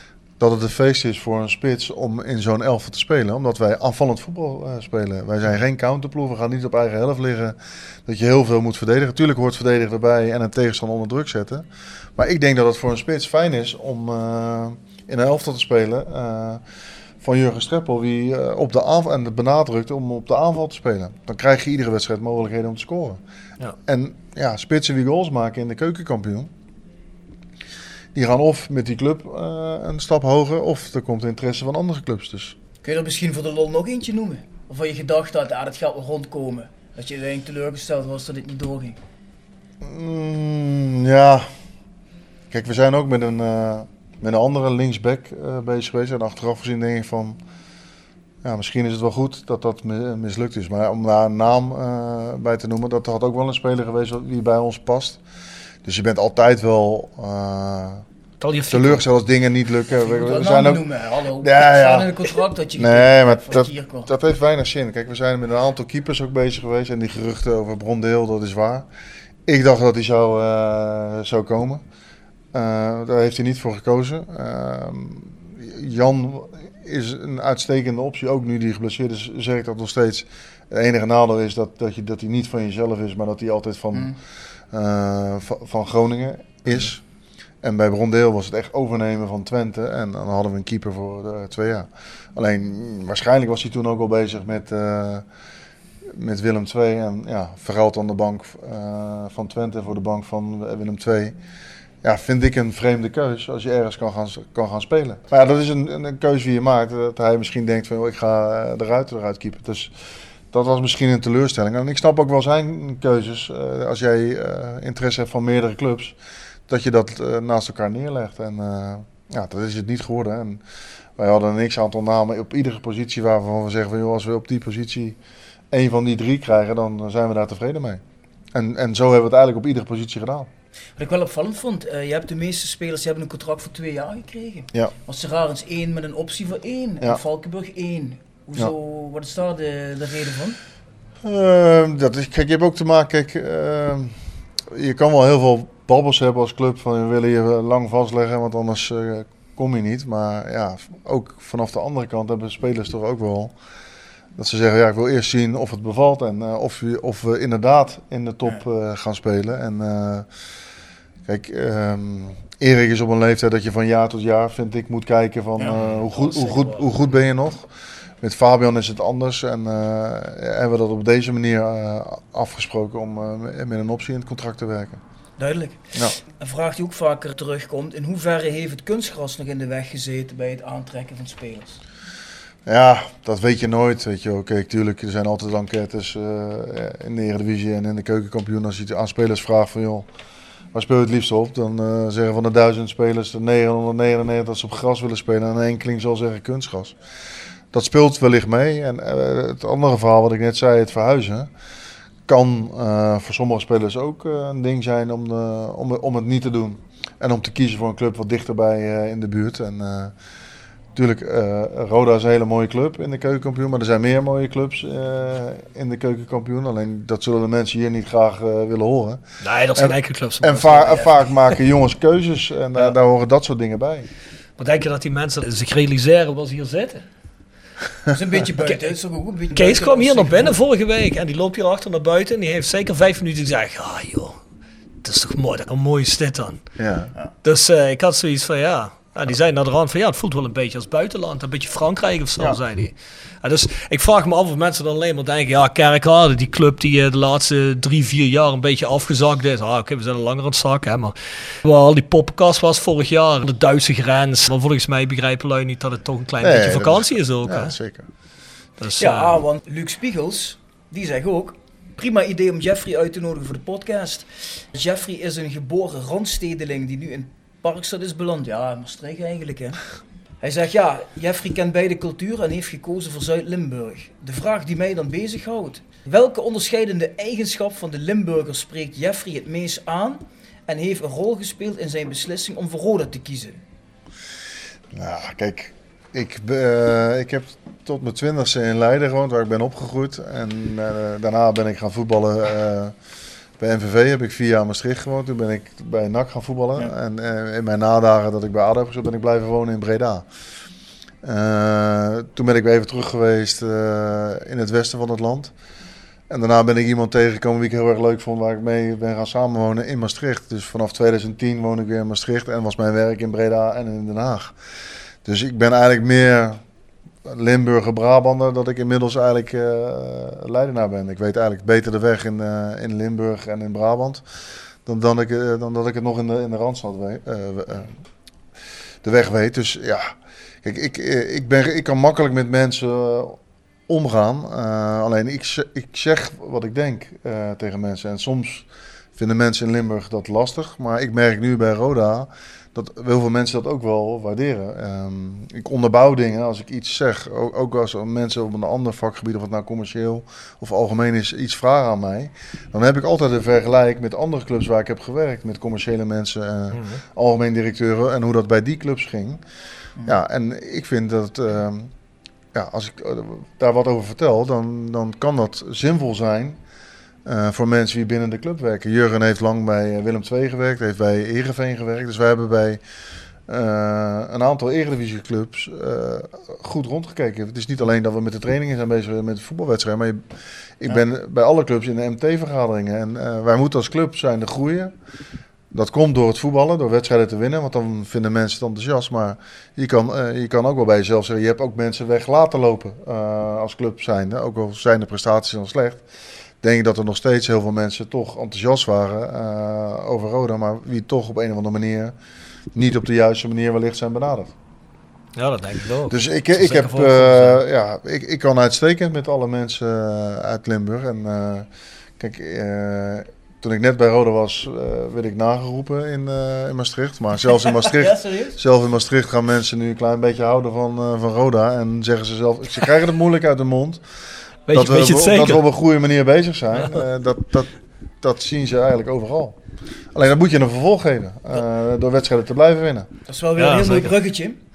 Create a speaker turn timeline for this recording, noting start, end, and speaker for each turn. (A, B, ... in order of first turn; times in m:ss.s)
0:00.4-0:16.6 A
0:17.2-0:23.2 A
0:23.9-0:26.5 A
0:28.1-0:32.6 A
0:32.8-0:39.0 B
0:39.8-0:41.5 A
0:42.5-0:47.4 A
0:48.4-0:55.2 A
0:55.8-0:58.0 A
0:58.4-0:59.1 C
0:58.7-1:00.8 A
1:00.0-1:04.1 B
1:01.4-1:02.1 A
1:02.8-1:08.9 A
1:09.5-1:11.8 A
1:12.5-1:24.2 A
1:24.7-1:27.0 A
1:27.6-1:35.2 A
1:36.1-1:41.4 A
1:42.0-1:49.9 A
1:50.5-1:56.2 A
1:56.7-2:00.6 A
2:01.2-2:05.2 A
2:05.7-2:08.0 A
2:08.5-2:10.5 A
2:11.0-2:20.6 B
2:21.2-2:24.2 A
2:24.7-2:33.5 A
2:34.4-2:40.3 A
2:41.3-2:47.7 A
2:45.6-2:46.9 B
2:48.2-2:55.0 A
2:55.4-3:01.8 B
3:02.7-3:10.1 A
3:10.7-3:17.0 A
3:17.7-3:21.5 A
3:22.3-3:30.1 A
3:31.0-3:39.2 A
3:39.4-3:41.3 C
3:39.8-3:44.1 A
3:44.6-3:47.0 C
3:48.1-3:50.6 B
3:48.6-3:48.9 C
3:49.6-3:54.4 C
3:55.0-3:56.6 C
3:56.8-3:57.1 A
3:57.4-4:17.8 C
4:16.4-4:18.1 A
4:18.8-4:19.3 C
4:19.0-4:29.8 B
4:30.4-4:43.6 B
4:44.9-4:53.0 A
4:53.6-5:00.3 A
5:01.2-5:05.5 A
5:06.3-5:14.5 A
5:15.2-5:16.6 A
5:17.2-5:24.2 A
5:24.8-5:27.9 A
5:29.0-5:59.4 A
5:56.7-5:57.0 C
6:00.0-6:01.9 A
6:02.5-6:06.6 A
6:07.2-6:12.8 A
6:13.5-6:20.2 A
6:20.8-6:24.9 A
6:25.7-6:36.0 A
6:36.6-6:42.2 A
6:42.7-6:44.5 A
6:45.4-6:47.6 C
6:46.1-6:51.7 A
6:52.2-7:04.0 A
6:57.9-6:58.6 B
7:04.7-7:05.6 C
7:04.7-7:07.7 A
7:08.2-7:09.6 A
7:10.1-7:13.1 A
7:13.3-7:14.6 B
7:13.6-7:14.1 C